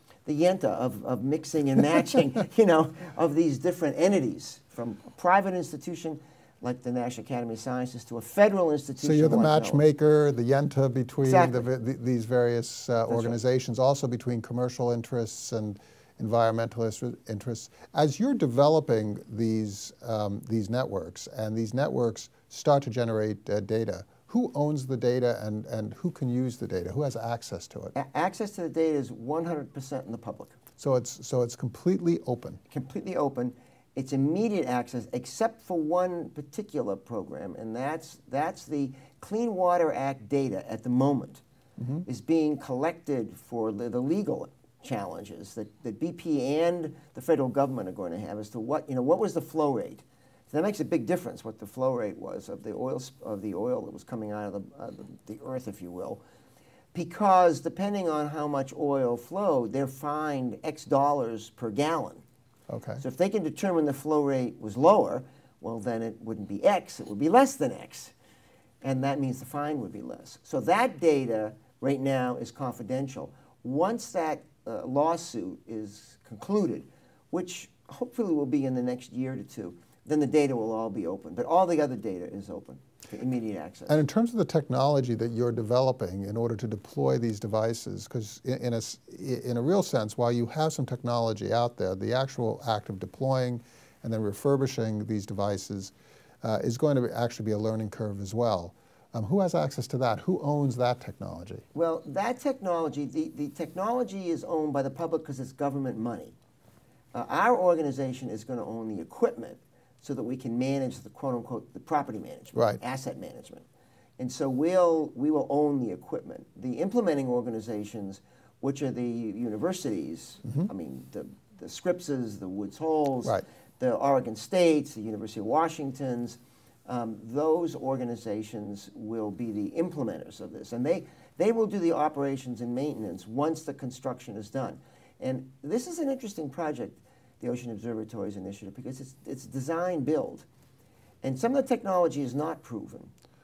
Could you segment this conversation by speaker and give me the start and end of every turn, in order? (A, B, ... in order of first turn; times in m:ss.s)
0:00.2-0:09.8 A
0:09.0-0:27.9 B
0:11.2-0:11.7 A
0:13.1-0:13.4 A
0:27.9-0:30.6 A
0:30.8-0:32.6 B
0:32.7-0:41.4 A
0:41.8-0:42.1 B
0:42.1-0:56.2 A
0:56.9-1:02.2 A
1:02.7-1:03.0 B
1:03.0-1:08.1 A
1:08.8-1:24.0 A
1:23.9-1:41.6 B
1:41.7-1:46.4 A
1:47.1-1:53.7 A
1:52.6-1:52.8 B
1:54.2-2:20.5 A
2:21.2-2:23.1 A